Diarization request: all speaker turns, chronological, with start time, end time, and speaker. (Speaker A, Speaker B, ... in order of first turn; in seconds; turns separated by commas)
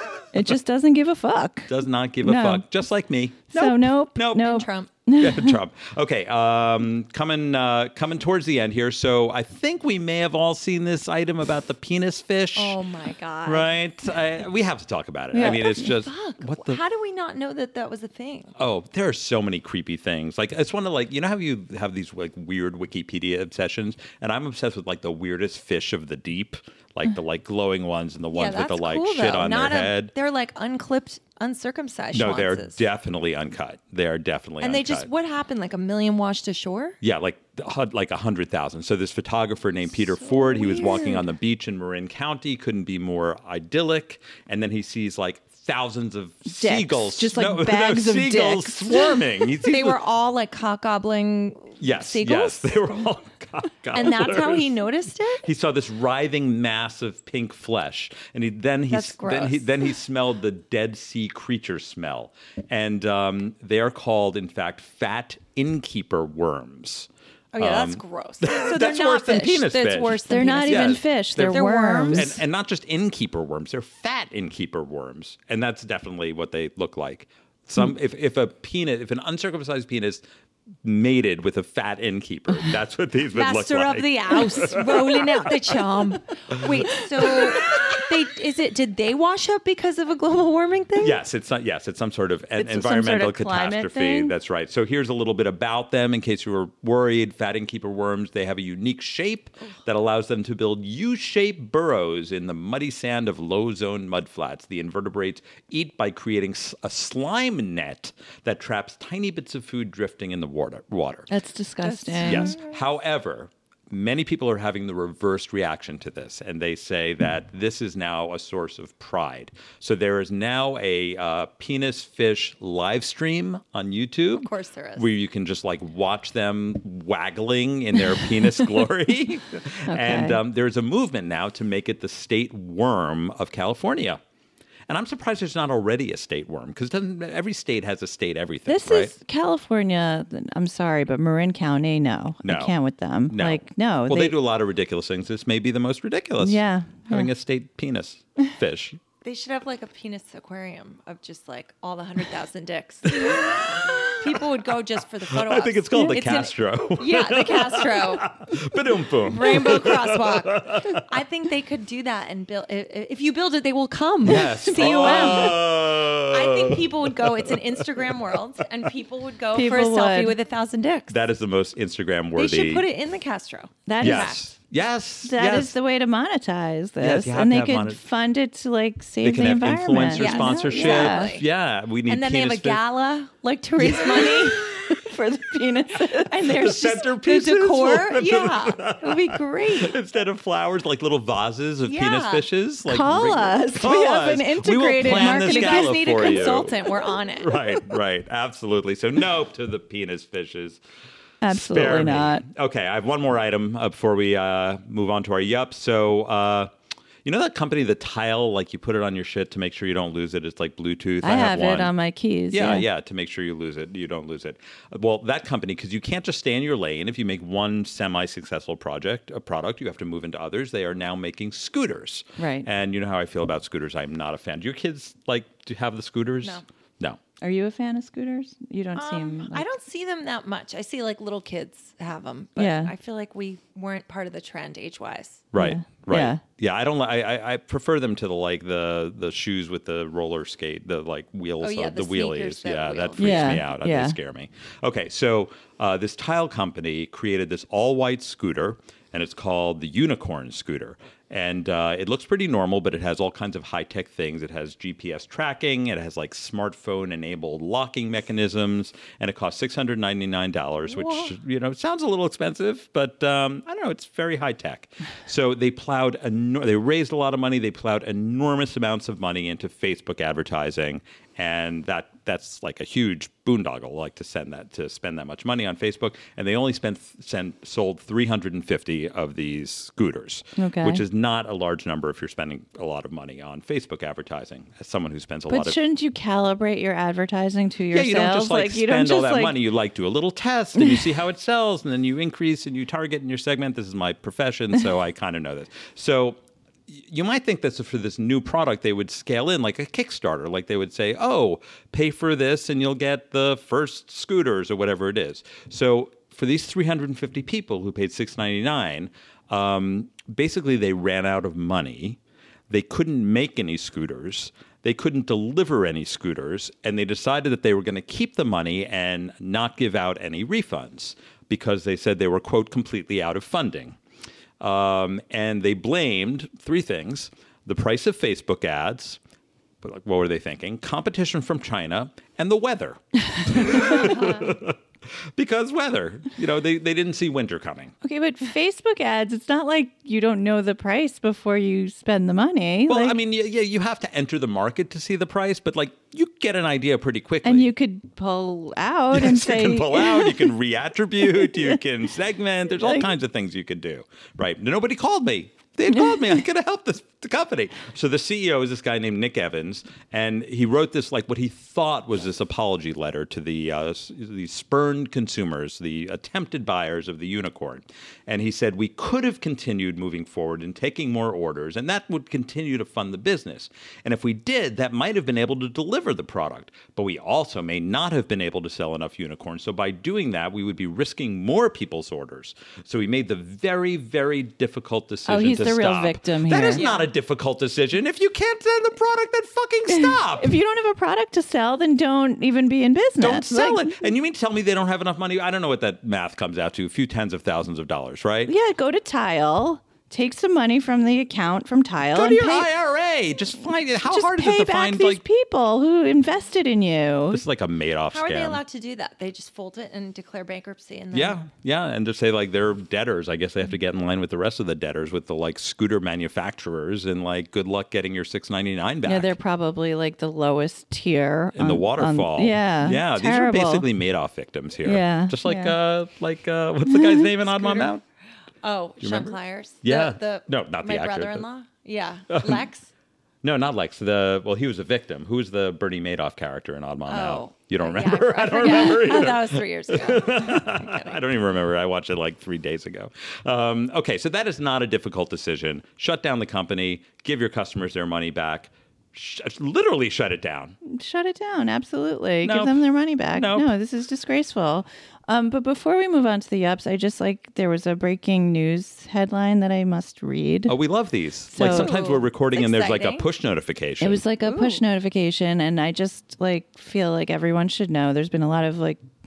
Speaker A: 0.3-2.6, Speaker B: 1.7-4.6, Speaker A: 3.5-5.6, Speaker C: 4.3-4.9, Speaker B: 5.2-12.8, Speaker C: 12.6-13.8, Speaker B: 13.4-16.8, Speaker A: 15.3-15.7, Speaker C: 15.4-18.5, Speaker B: 18.6-30.1, Speaker C: 28.3-32.8, Speaker B: 32.1-35.1, Speaker C: 34.6-37.0, Speaker B: 37.0-50.0, Speaker C: 40.0-41.2, Speaker A: 46.5-49.2, Speaker C: 49.7-52.7, Speaker B: 51.8-54.7, Speaker C: 53.9-55.5, Speaker B: 55.4-80.2, Speaker C: 58.9-59.9, Speaker C: 67.5-72.3, Speaker A: 70.3-72.4, Speaker B: 80.8-85.5, Speaker C: 83.3-91.2, Speaker B: 91.0-111.3, Speaker A: 92.6-94.3, Speaker A: 111.3-112.5, Speaker C: 111.8-112.8, Speaker B: 112.2-134.2, Speaker C: 124.3-125.1, Speaker A: 129.9-130.4, Speaker B: 134.9-139.1, Speaker A: 138.7-144.4, Speaker B: 142.4-142.8, Speaker B: 143.3-149.0, Speaker A: 146.4-147.3, Speaker C: 149.2-158.3, Speaker B: 153.1-154.4, Speaker B: 155.3-161.0, Speaker C: 159.2-171.2, Speaker B: 164.2-168.1, Speaker A: 164.5-165.6, Speaker A: 169.5-170.4, Speaker B: 171.1-172.8, Speaker C: 172.4-174.4, Speaker A: 173.9-174.4, Speaker B: 174.0-175.8, Speaker A: 175.2-181.4, Speaker B: 177.0-178.0, Speaker B: 179.2-182.8, Speaker C: 180.1-181.4, Speaker C: 182.1-184.7, Speaker B: 183.8-185.0, Speaker A: 184.9-187.0, Speaker C: 186.3-189.9, Speaker B: 186.4-200.8, Speaker C: 191.9-192.5, Speaker A: 192.9-196.4, Speaker C: 195.0-197.8, Speaker A: 201.4-202.4, Speaker B: 201.5-206.7, Speaker B: 207.2-211.9, Speaker A: 211.2-212.9, Speaker B: 212.5-227.2, Speaker A: 222.4-222.7, Speaker A: 227.4-229.6, Speaker C: 228.9-235.5, Speaker A: 232.6-232.9, Speaker B: 235.5-285.8, Speaker A: 235.6-236.4, Speaker C: 241.6-243.6, Speaker A: 243.2-244.2, Speaker A: 280.6-281.0, Speaker A: 285.5-289.6, Speaker B: 287.9-312.2, Speaker B: 312.7-324.0, Speaker B: 324.6-329.2, Speaker B: 329.8-337.9, Speaker C: 334.0-334.4, Speaker A: 338.0-343.2, Speaker B: 342.9-347.7, Speaker A: 347.4-350.6, Speaker B: 349.1-390.6, Speaker A: 351.2-351.8, Speaker A: 352.8-353.1, Speaker A: 355.9-356.3, Speaker A: 385.3-386.8, Speaker C: 386.7-387.1, Speaker A: 389.9-393.9, Speaker B: 393.2-398.5, Speaker A: 398.5-402.7, Speaker B: 402.1-405.2, Speaker A: 404.0-407.4, Speaker B: 407.3-408.6, Speaker C: 408.1-411.4, Speaker B: 411.1-419.3, Speaker A: 419.0-423.9, Speaker B: 421.6-428.0, Speaker A: 424.8-425.8, Speaker A: 426.9-427.3, Speaker C: 427.6-427.9, Speaker C: 428.6-432.9, Speaker B: 429.0-431.4, Speaker B: 432.3-432.6, Speaker B: 433.4-450.8, Speaker C: 437.1-441.2, Speaker A: 450.9-460.8, Speaker B: 452.4-453.7, Speaker B: 460.7-464.2, Speaker A: 461.5-461.9, Speaker C: 461.6-463.3, Speaker A: 464.0-469.1, Speaker C: 464.4-464.8